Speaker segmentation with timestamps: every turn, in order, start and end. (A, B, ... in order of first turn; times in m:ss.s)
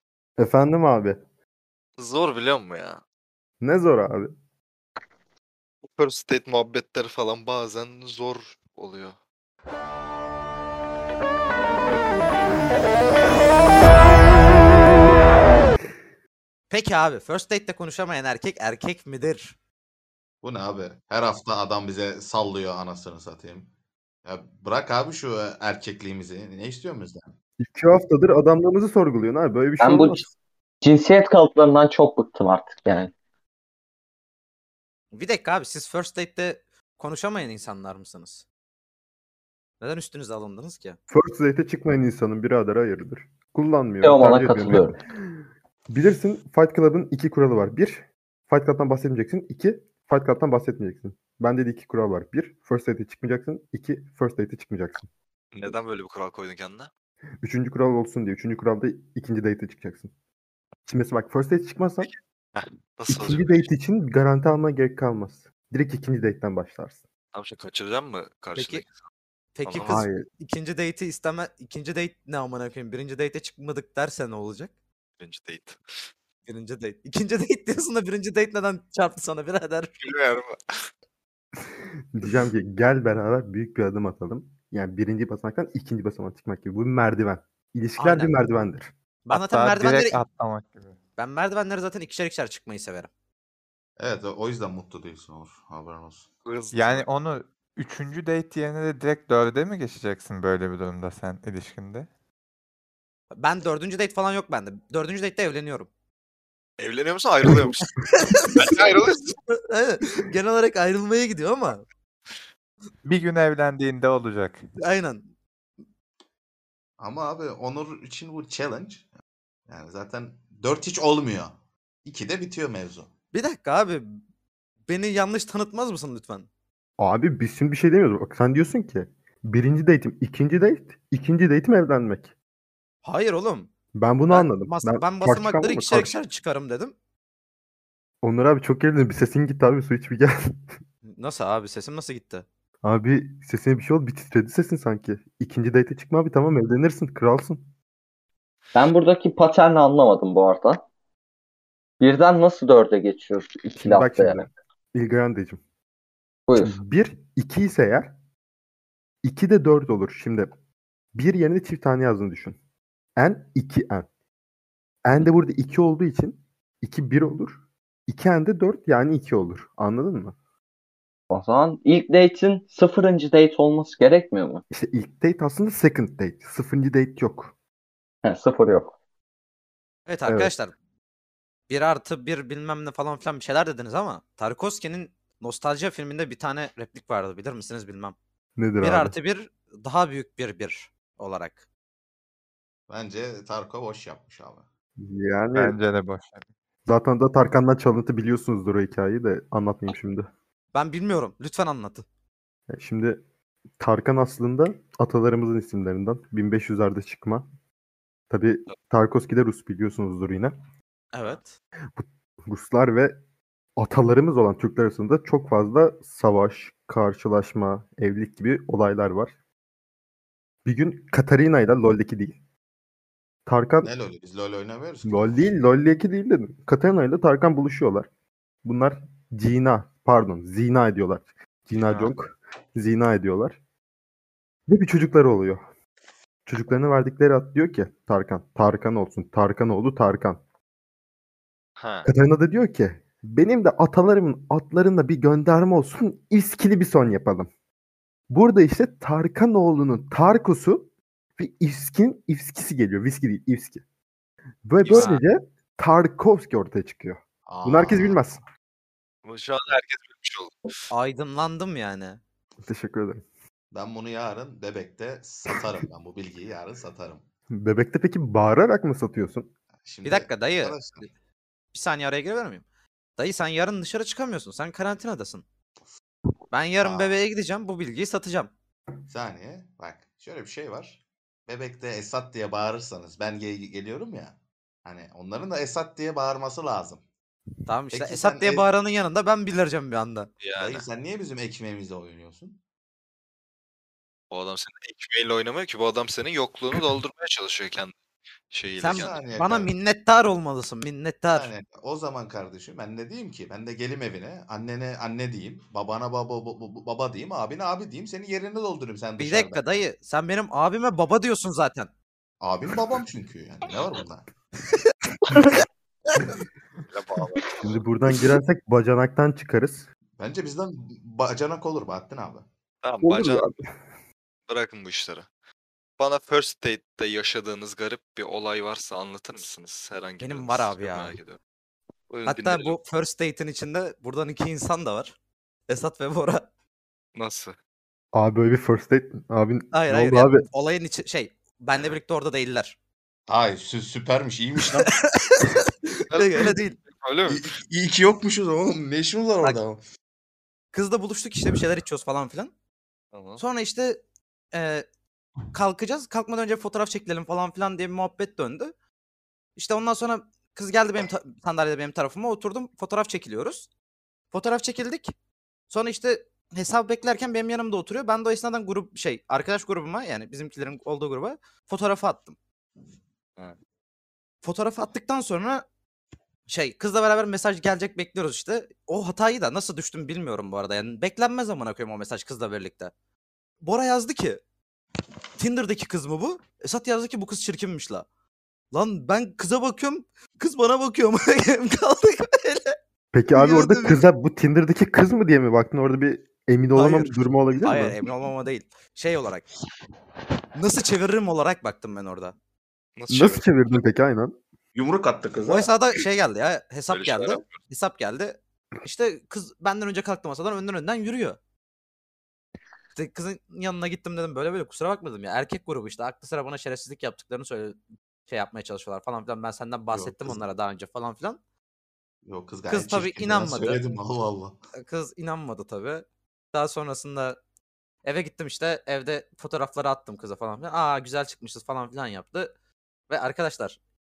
0:00.4-0:01.2 A
0:02.0-0:03.0 B
0:03.6-0:04.3 A
0:06.0-0:09.2 B
0:16.7-0:19.6 C
0:20.4-0:23.7 D
0:24.2-0:27.3 D
0:27.6-0:30.3 A
0:29.8-0:30.3 E
0:30.8-0:33.1 E
0:35.1-0:38.4 C
0:39.8-0:41.0 C
0:41.1-0:44.9 A
0:44.0-0:45.0 E
0:45.9-0:55.1 A
0:55.5-0:56.9 B
0:57.4-1:00.1 A
1:00.9-1:02.1 A
1:02.0-1:03.7 B
1:03.1-1:07.0 A
1:07.3-1:08.9 B
1:08.6-1:08.8 C
1:09.6-1:14.7 C
1:09.7-1:10.0 B
1:09.8-1:10.3 A
1:15.2-1:15.8 B
1:16.5-1:20.0 C
1:20.0-1:20.8 B
1:22.1-1:28.9 A
1:28.0-1:28.4 C
1:29.3-1:30.2 C
1:29.3-1:31.0 F
1:31.2-1:33.1 C
1:34.0-1:36.3 D
1:36.4-1:37.0 B
1:36.7-1:42.1 F
1:43.3-1:45.9 C
1:46.8-1:48.0 B
1:48.2-1:51.8 C
1:48.6-1:49.4 B
1:53.0-1:54.6 F
1:54.8-1:55.2 C
1:57.0-1:59.1 D
1:59.7-2:03.1 D
2:03.3-2:04.2 C
2:04.9-2:06.5 C
2:07.0-2:12.3 A
2:13.0-2:13.7 C
2:13.9-2:16.2 A
2:14.3-2:17.0 C
2:18.2-2:20.6 A
2:21.2-2:22.4 C
2:22.8-2:27.7 A
2:28.8-2:30.8 E
2:32.0-2:34.5 E
2:33.8-2:35.6 A
2:36.5-2:36.8 E
2:36.6-2:38.1 A
2:39.2-2:40.5 A
2:41.1-2:42.6 A
2:43.2-2:44.1 A
2:45.0-2:50.4 A
2:51.3-2:54.6 E
2:54.7-2:57.5 A
2:58.2-2:59.0 E
3:00.1-3:00.7 C
3:00.3-3:00.5 A
3:01.7-3:08.2 C
3:08.6-3:09.2 A
3:08.8-3:11.6 C
3:12.9-3:14.6 D
3:15.0-3:15.8 A
3:15.5-3:16.4 F
3:16.9-3:20.3 A
3:20.7-3:22.0 C
3:22.7-3:23.2 A
3:23.8-3:27.5 A
3:28.3-3:30.6 A
3:31.1-3:31.6 C
3:32.0-3:33.2 A
3:33.8-3:39.4 A
3:40.6-3:42.4 A
3:43.5-3:43.9 A
3:43.8-3:45.5 D
3:45.0-3:48.1 A
3:48.6-3:53.6 A
3:54.7-3:55.7 A
3:56.5-4:00.4 A
4:01.8-4:02.1 B
4:02.0-4:07.5 A
4:08.3-4:13.8 A
4:14.7-4:18.4 A
4:14.8-4:15.2 B
4:14.9-4:15.2 C
4:17.5-4:18.2 D
4:19.2-4:20.5 B
4:20.9-4:22.2 C
4:22.6-4:23.2 A
4:23.7-4:27.2 D
4:27.5-4:29.5 A
4:29.8-4:31.1 D
4:30.0-4:30.8 C
4:31.7-4:32.6 C
4:33.2-4:35.4 C
4:36.5-4:38.5 C
4:36.8-4:37.2 D
4:39.1-4:47.0 D
4:47.7-4:50.3 C
4:47.9-4:48.7 D
4:50.4-4:50.9 B
4:50.6-4:52.6 D
4:54.3-4:58.0 B
4:58.5-4:59.2 B
4:58.8-5:01.5 C
4:58.8-4:59.7 D
5:01.3-5:09.7 D
5:09.2-5:11.9 C
5:12.4-5:14.3 D
5:16.9-5:17.6 B
5:17.6-5:19.9 A
5:20.2-5:22.5 D
5:22.8-5:23.5 B
5:23.0-5:23.7 A
5:24.5-5:25.3 B
5:26.0-5:31.4 B
5:30.2-5:31.2 C
5:32.1-5:32.8 B
5:32.3-5:35.2 C
5:35.7-5:36.5 C
5:37.2-5:37.6 B
5:38.1-5:40.4 A
5:39.7-5:42.8 C
5:43.3-5:44.9 D
5:44.8-5:46.8 C
5:46.1-5:47.6 B
5:47.3-5:49.8 D
5:50.7-5:52.5 C
5:53.1-5:53.4 B
5:53.4-5:54.0 C
5:54.5-5:54.8 C
5:55.5-5:58.7 C
5:59.6-6:03.7 C
6:04.3-6:05.1 C
6:05.7-6:12.4 C
6:14.4-6:15.6 C
6:16.5-6:22.9 C
6:23.6-6:24.4 C
6:25.4-6:28.0 C
6:28.7-6:32.8 C
6:33.1-6:38.0 A
6:33.3-6:34.0 C
6:36.7-6:39.5 C
6:40.6-6:42.4 C
6:43.0-6:43.8 B
6:43.1-6:44.4 A
6:44.8-6:45.7 D
6:45.4-6:51.4 C
6:46.9-6:47.6 B
6:53.0-6:57.8 C
6:58.3-7:01.4 C
6:59.9-7:00.4 D
7:02.2-7:04.6 D
7:02.7-7:03.8 C
7:04.8-7:07.4 C
7:08.0-7:12.5 C
7:13.1-7:13.8 C